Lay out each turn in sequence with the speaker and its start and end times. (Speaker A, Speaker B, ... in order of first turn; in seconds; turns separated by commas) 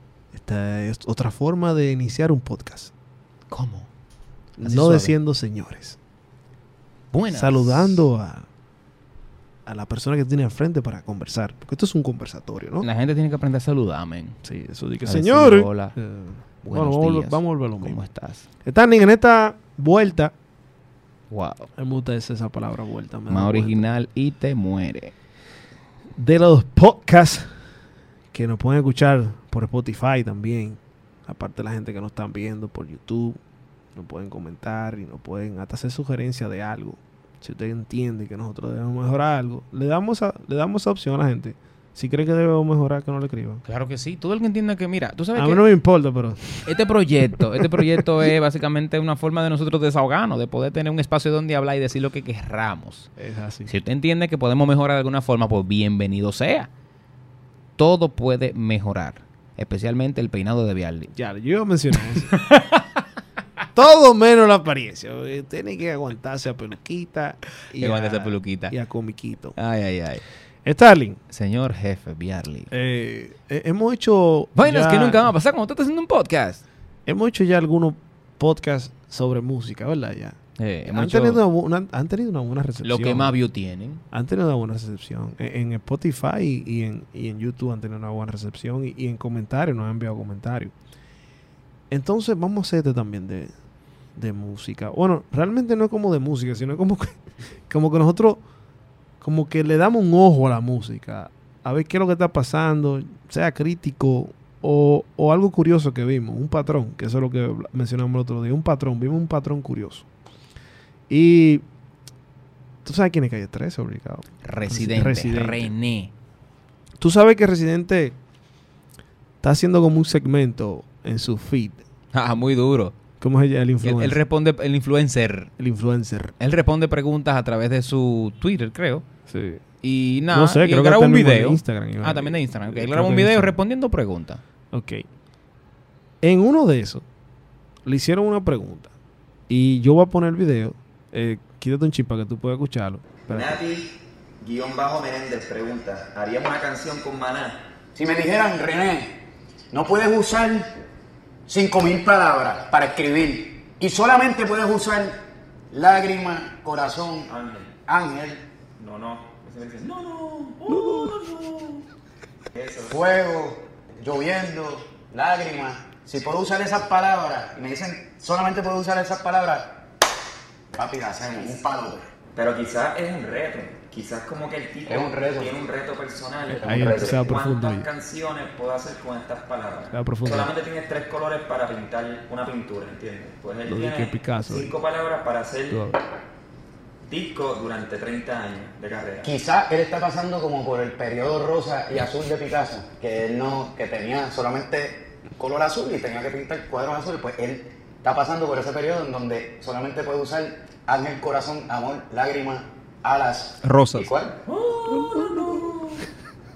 Speaker A: 0.3-2.9, Speaker B: 3.5-3.9, Speaker A: 4.6-6.0, Speaker B: 4.6-5.2, Speaker B: 7.1-8.0, Speaker A: 7.3-8.5, Speaker A: 9.7-12.9, Speaker B: 12.8-14.4, Speaker A: 14.4-18.0, Speaker B: 15.1-16.0, Speaker B: 16.6-18.4, Speaker A: 18.6-20.3, Speaker B: 21.3-21.7, Speaker A: 21.8-23.9, Speaker B: 23.3-25.1, Speaker A: 26.2-27.5, Speaker A: 28.3-33.4, Speaker A: 34.0-43.6, Speaker B: 43.6-45.6, Speaker A: 45.4-46.7, Speaker B: 46.7-53.1, Speaker A: 47.4-48.0, Speaker A: 53.2-53.7, Speaker B: 53.7-56.7, Speaker B: 57.8-61.1, Speaker A: 61.1-62.3, Speaker B: 62.1-63.0, Speaker A: 63.8-69.6, Speaker B: 67.8-68.7, Speaker B: 69.6-70.2, Speaker A: 70.6-71.2, Speaker B: 71.3-72.7, Speaker A: 72.7-75.3, Speaker B: 74.6-76.6, Speaker A: 77.1-80.4, Speaker B: 80.6-81.4, Speaker A: 80.9-83.4, Speaker B: 82.8-84.0, Speaker A: 84.1-90.7, Speaker A: 91.9-93.5, Speaker A: 94.1-97.2, Speaker A: 97.7-98.4, Speaker A: 99.2-110.1, Speaker A: 111.1-111.6, Speaker A: 112.8-115.7, Speaker B: 114.4-116.1, Speaker A: 117.0-118.2, Speaker A: 119.4-121.8, Speaker B: 122.1-123.0, Speaker A: 123.2-124.2, Speaker B: 123.8-125.5, Speaker A: 125.6-126.3, Speaker B: 126.4-129.0, Speaker A: 129.3-129.6, Speaker B: 129.8-134.4, Speaker A: 130.3-133.6, Speaker A: 134.7-135.1, Speaker A: 136.2-137.0, Speaker A: 137.8-138.9, Speaker A: 139.5-143.6, Speaker C: 143.3-143.9, Speaker C: 144.4-147.6, Speaker D: 148.0-149.2, Speaker D: 149.7-150.7, Speaker D: 151.5-155.2, Speaker D: 155.7-157.3, Speaker C: 157.3-157.7, Speaker D: 157.9-158.4, Speaker C: 158.8-160.5, Speaker A: 160.7-161.2, Speaker B: 160.7-161.7, Speaker C: 162.5-163.0, Speaker D: 162.9-169.8, Speaker D: 170.7-172.1, Speaker C: 172.3-185.8, Speaker D: 174.9-175.5, Speaker D: 176.5-177.4, Speaker A: 176.6-177.9, Speaker A: 179.9-180.5, Speaker A: 183.7-184.7, Speaker A: 185.7-186.0, Speaker C: 187.1-189.3, Speaker D: 189.2-204.4, Speaker B: 203.6-206.0, Speaker A: 204.9-205.4